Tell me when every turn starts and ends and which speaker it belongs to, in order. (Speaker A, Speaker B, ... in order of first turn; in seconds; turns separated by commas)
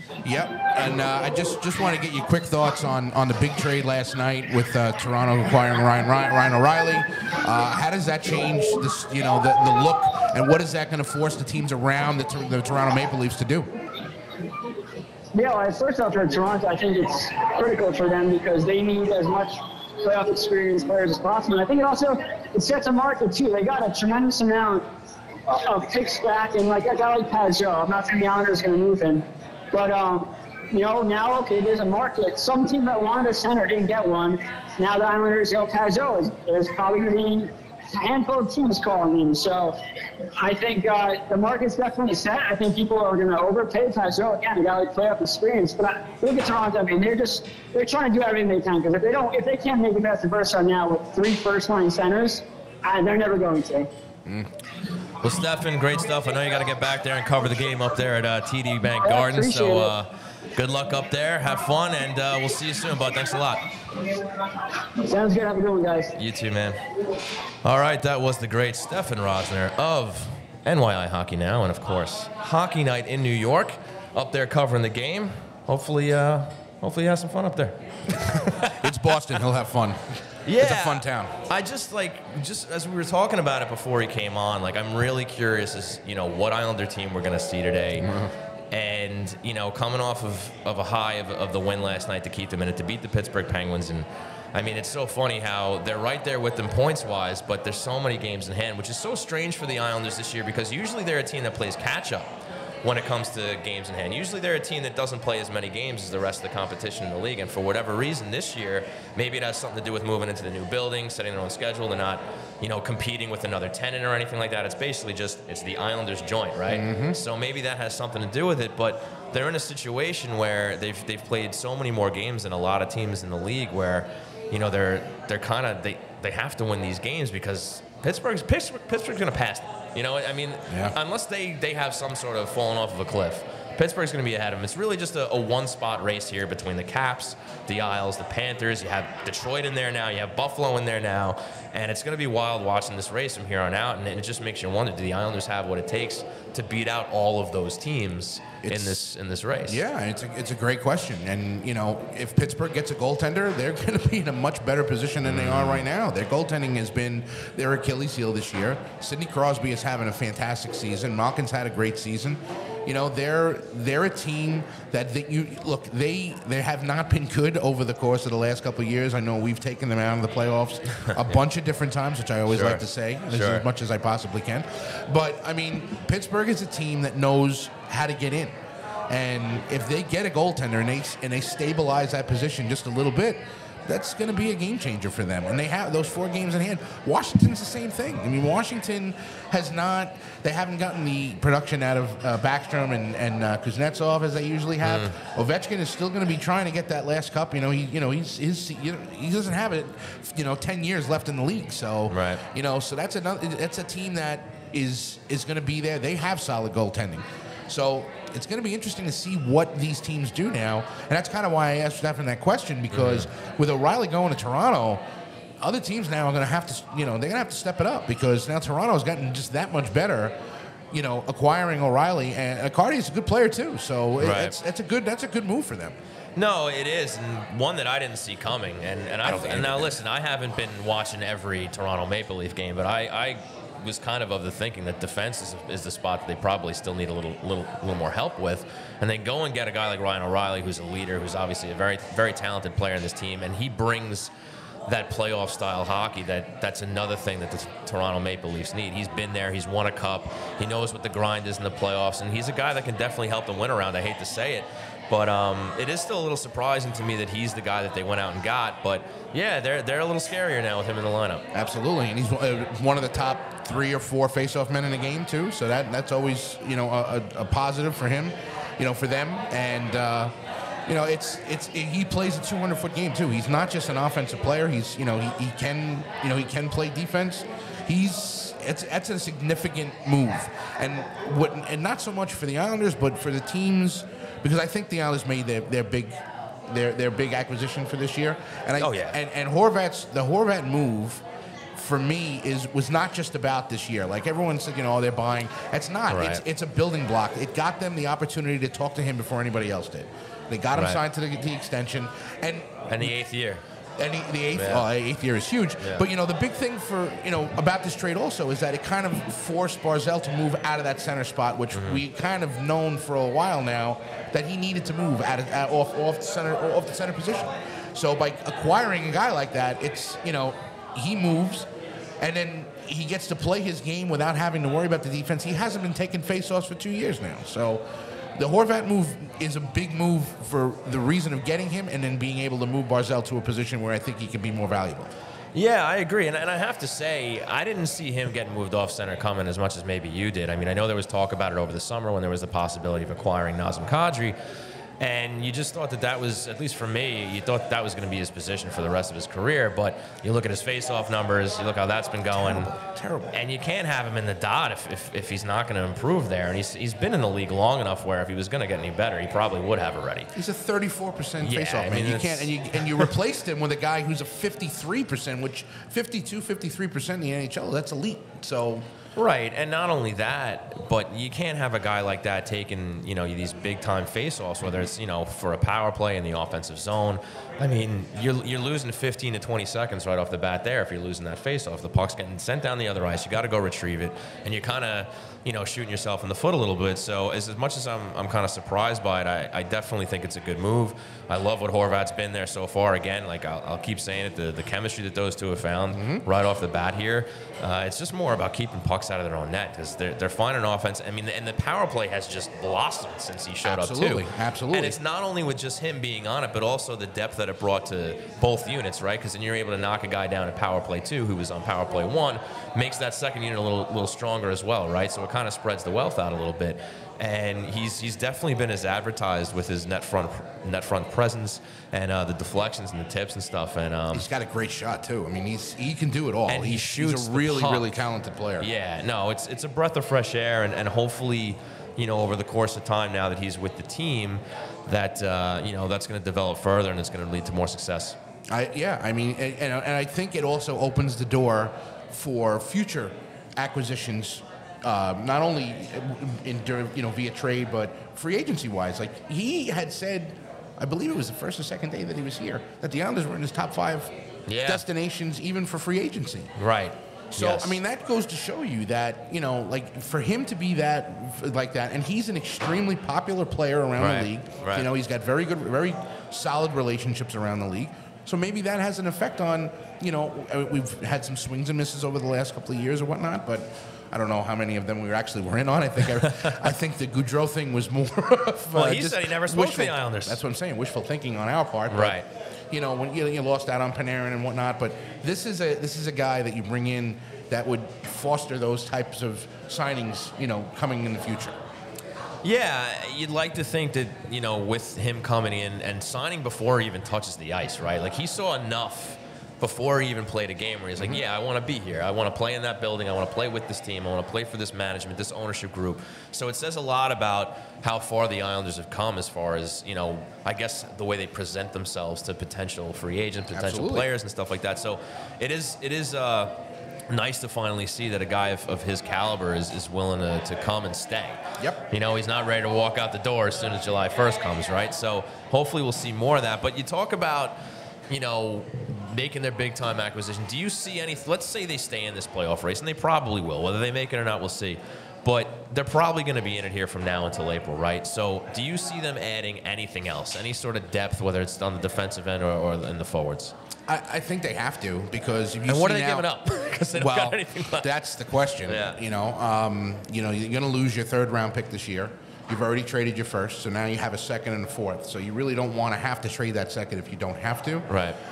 Speaker A: 0.2-13.7, Speaker B: 15.3-24.9, Speaker B: 25.5-39.8, Speaker B: 40.4-53.9, Speaker C: 55.2-63.7, Speaker B: 59.0-59.9, Speaker B: 65.0-66.1, Speaker C: 66.2-66.8, Speaker C: 67.6-79.2, Speaker A: 78.1-81.3, Speaker C: 80.5-88.1, Speaker A: 88.0-88.3, Speaker C: 88.7-102.3, Speaker C: 102.8-149.8, Speaker A: 116.7-117.2, Speaker A: 130.7-131.0, Speaker A: 148.7-149.0, Speaker A: 149.7-178.6, Speaker C: 155.2-155.8, Speaker C: 172.5-173.7, Speaker A: 179.1-215.0, Speaker C: 194.8-195.2, Speaker C: 202.1-202.4, Speaker C: 212.9-213.3, Speaker A: 215.6-220.3, Speaker A: 220.9-226.0, Speaker C: 224.2-224.6, Speaker C: 226.4-244.3, Speaker A: 229.2-229.9, Speaker C: 244.9-261.4, Speaker A: 261.5-270.3, Speaker A: 270.9-291.2, Speaker C: 288.8-289.2, Speaker A: 291.8-303.2, Speaker C: 296.1-296.4, Speaker C: 300.8-301.0, Speaker C: 302.9-303.6, Speaker A: 304.0-321.7, Speaker C: 304.6-304.9, Speaker C: 311.7-312.0, Speaker A: 322.2-327.9, Speaker A: 328.4-335.1, Speaker C: 335.5-344.4, Speaker C: 345.0-352.7, Speaker A: 352.3-353.3, Speaker C: 353.3-360.3, Speaker A: 360.4-368.9, Speaker C: 361.4-363.0, Speaker C: 369.2-424.3, Speaker A: 395.9-396.2, Speaker A: 403.6-405.0, Speaker A: 424.1-428.7, Speaker C: 426.5-427.9, Speaker C: 428.6-438.2, Speaker A: 438.5-456.5, Speaker C: 454.5-454.8, Speaker C: 456.6-457.8, Speaker A: 457.3-491.6, Speaker C: 464.0-464.9, Speaker C: 476.2-476.5, Speaker C: 478.7-480.4, Speaker C: 481.9-482.3, Speaker C: 492.4-516.5, Speaker A: 501.0-501.2, Speaker A: 513.5-514.1, Speaker C: 517.1-521.4, Speaker C: 521.9-527.5, Speaker C: 528.1-543.5, Speaker A: 543.9-557.9, Speaker C: 545.7-547.9, Speaker C: 548.6-549.0, Speaker C: 557.9-558.2